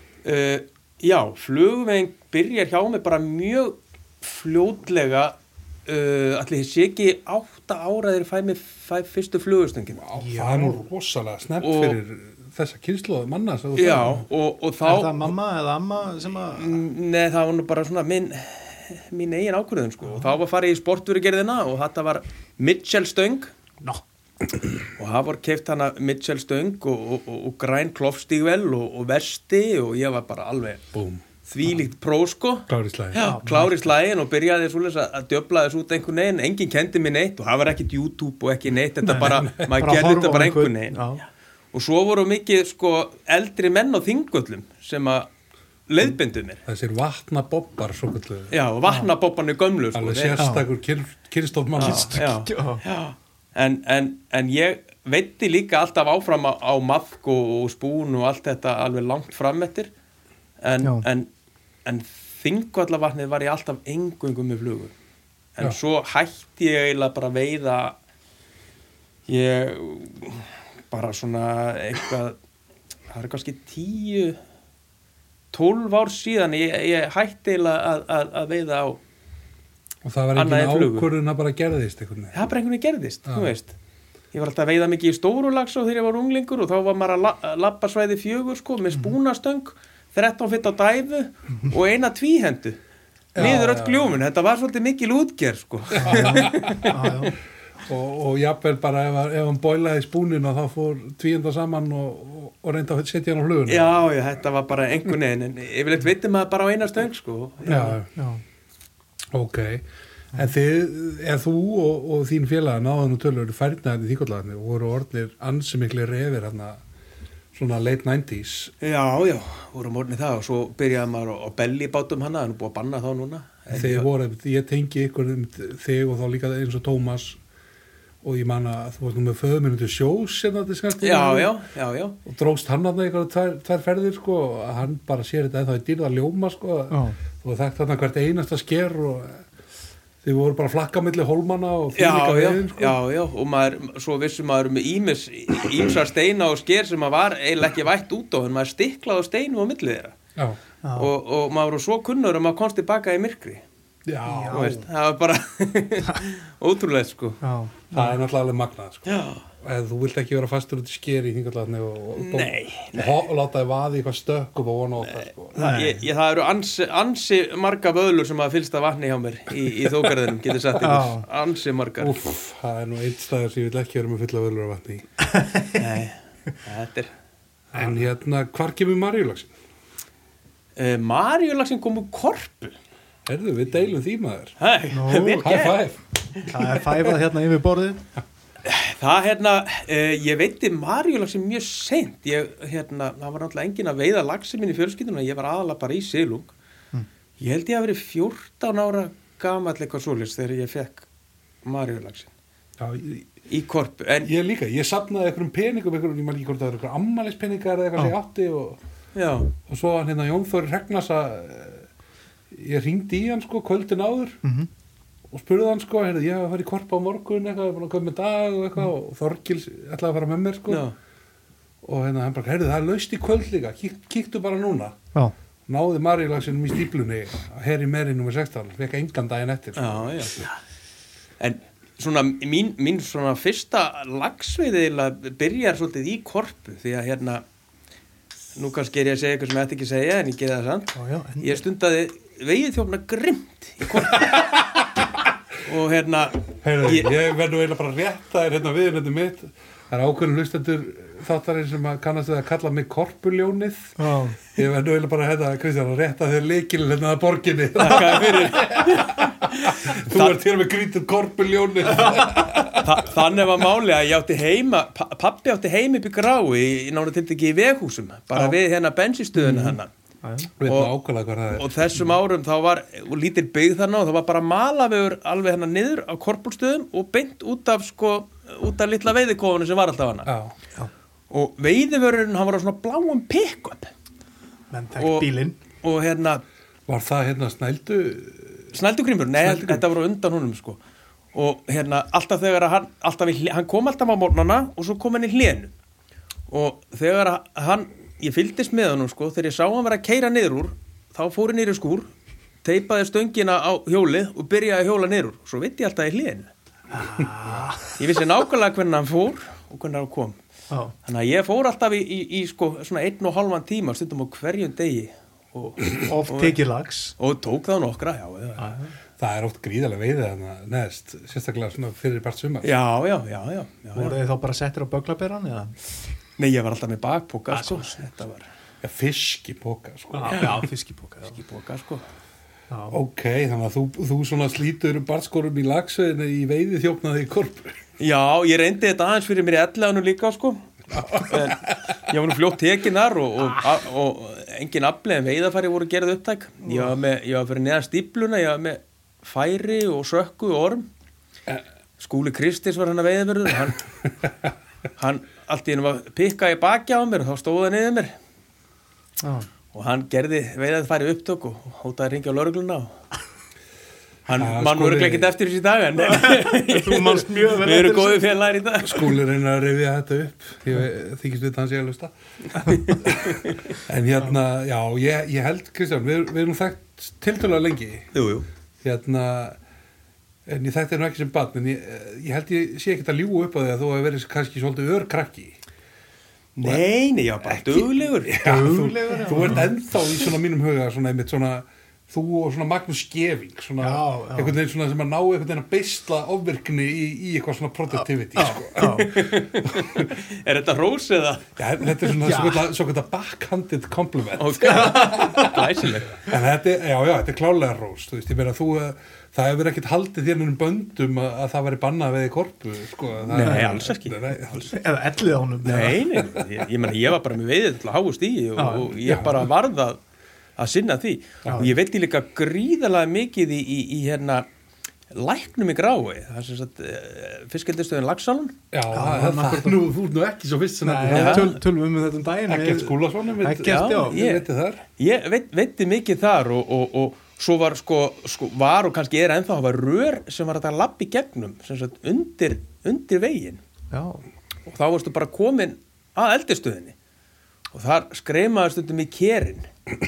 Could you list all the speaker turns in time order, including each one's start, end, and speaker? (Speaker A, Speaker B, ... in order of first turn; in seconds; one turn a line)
Speaker A: 0.2-10.0
Speaker B: 10.0-14.2
Speaker C: 10.1-10.9
Speaker A: 11.6-12.0
Speaker A: 13.8-15.3
Speaker C: 14.8-16.8
Speaker A: 16.5-23.5
Speaker C: 20.1-20.4
Speaker A: 25.0-30.9
Speaker B: 30.9-31.2
Speaker A: 31.4-41.1
Speaker B: 32.7-33.2
Speaker C: 33.2-33.8
Speaker B: 39.0-39.8
Speaker C: 39.1-41.2
Speaker A: 41.7-45.3
Speaker A: 45.9-46.6
Speaker B: 46.6-48.5
Speaker A: 48.5-50.4
Speaker B: 49.9-52.2
Speaker C: 50.4-50.7
Speaker C: 51.8-52.8
Speaker A: 51.8-59.9
Speaker A: 60.6-61.3
Speaker A: 61.8-64.9
Speaker A: 65.5-68.0
Speaker A: 69.3-72.4
Speaker A: 73.1-74.4
Speaker A: 75.5-79.0
Speaker B: 80.0-82.4
Speaker A: 80.3-81.1
Speaker A: 82.3-83.7
Speaker A: 84.3-92.8
Speaker B: 93.3-94.2
Speaker A: 93.3-97.0
Speaker B: 96.0-97.1
Speaker C: 96.0-97.3
Speaker B: 97.8-103.9
Speaker A: 103.7-108.0
Speaker B: 107.6-108.1
Speaker C: 108.1-108.4
Speaker B: 109.3-116.8
Speaker B: 117.5-118.7
Speaker A: 118.8-124.1
Speaker B: 123.7-127.4
Speaker B: 128.2-131.5
Speaker A: 131.0-132.2
Speaker B: 132.2-139.4
Speaker C: 136.9-137.2
Speaker B: 140.2-143.0
Speaker A: 141.9-150.2
Speaker C: 150.8-151.1
Speaker A: 150.9-153.6
Speaker B: 154.1-154.8
Speaker C: 154.2-154.8
Speaker A: 154.5-157.4
Speaker C: 157.4-158.2
Speaker B: 157.9-165.5
Speaker A: 159.1-159.4
Speaker A: 162.2-163.2
Speaker A: 165.0-172.2
Speaker C: 165.6-166.0
Speaker C: 170.8-171.2
Speaker B: 172.0-175.1
Speaker A: 175.8-177.1
Speaker B: 177.7-179.5
Speaker A: 180.8-182.7
Speaker B: 183.2-184.5
Speaker A: 184.6-185.8
Speaker C: 184.9-185.5
Speaker B: 185.4-186.0
Speaker C: 186.5-188.0
Speaker A: 188.6-196.5
Speaker A: 197.4-201.1
Speaker A: 201.6-202.3
Speaker B: 202.8-203.2
Speaker A: 203.5-204.3
Speaker B: 204.2-208.8
Speaker A: 209.1-209.5
Speaker B: 209.7-211.9
Speaker B: 212.5-214.4
Speaker C: 214.4-214.7
Speaker B: 215.3-220.9
Speaker A: 220.7-220.9
Speaker B: 221.8-225.0
Speaker B: 225.7-230.4
Speaker A: 229.8-230.6
Speaker A: 231.4-237.4
Speaker A: 238.6-244.7
Speaker C: 240.9-241.6
Speaker A: 245.6-247.2
Speaker B: 246.6-263.1
Speaker C: 254.0-254.4
Speaker A: 257.8-260.4
Speaker A: 262.8-269.9
Speaker C: 269.4-270.5
Speaker B: 270.6-271.8
Speaker A: 270.6-270.9
Speaker A: 271.5-280.3
Speaker B: 280.2-280.5
Speaker A: 281.3-283.9
Speaker C: 284.7-285.6
Speaker A: 285.0-285.3
Speaker A: 285.8-286.4
Speaker B: 286.9-288.7
Speaker A: 288.7-290.8
Speaker B: 289.4-289.9
Speaker A: 291.3-295.7
Speaker A: 296.5-302.1
Speaker A: 302.6-306.5
Speaker C: 306.9-308.0
Speaker A: 307.9-310.4
Speaker A: 311.0-316.6
Speaker C: 316.0-317.1
Speaker A: 317.2-318.8
Speaker C: 318.6-318.9
Speaker B: 319.2-322.7
Speaker A: 322.6-324.2
Speaker C: 323.9-325.8
Speaker A: 326.4-328.4
Speaker C: 327.5-328.1
Speaker B: 328.8-330.6
Speaker C: 330.1-331.4
Speaker A: 331.2-332.1
Speaker C: 332.7-333.0
Speaker B: 332.9-337.8
Speaker A: 338.0-350.9
Speaker B: 340.9-341.7
Speaker A: 352.0-353.8
Speaker A: 355.0-358.1
Speaker C: 359.2-359.5
Speaker A: 359.7-362.9
Speaker A: 364.2-369.1
Speaker B: 364.4-365.3
Speaker C: 366.0-368.3
Speaker B: 368.8-372.1
Speaker B: 372.6-378.1
Speaker A: 372.7-373.0
Speaker A: 378.1-378.4
Speaker B: 378.8-379.6
Speaker B: 380.4-385.6
Speaker A: 386.6-388.7
Speaker B: 387.4-400.1
Speaker C: 388.4-389.7
Speaker C: 393.8-394.6
Speaker C: 398.4-399.1
Speaker A: 398.8-401.6
Speaker B: 401.6-414.8
Speaker C: 402.1-402.6
Speaker A: 404.4-406.2
Speaker C: 404.8-405.2
Speaker A: 413.3-414.2
Speaker C: 413.4-413.7
Speaker C: 414.7-416.2
Speaker A: 415.6-420.0
Speaker C: 418.6-418.9
Speaker B: 419.0-419.5
Speaker A: 420.6-424.4
Speaker C: 421.5-421.7
Speaker A: 425.1-428.6
Speaker B: 428.7-431.6
Speaker C: 428.9-429.9
Speaker C: 430.8-434.2
Speaker A: 431.1-431.5
Speaker B: 432.5-434.8
Speaker A: 433.6-434.4
Speaker A: 435.0-443.6
Speaker C: 443.9-444.2
Speaker A: 444.6-446.9
Speaker A: 447.7-449.7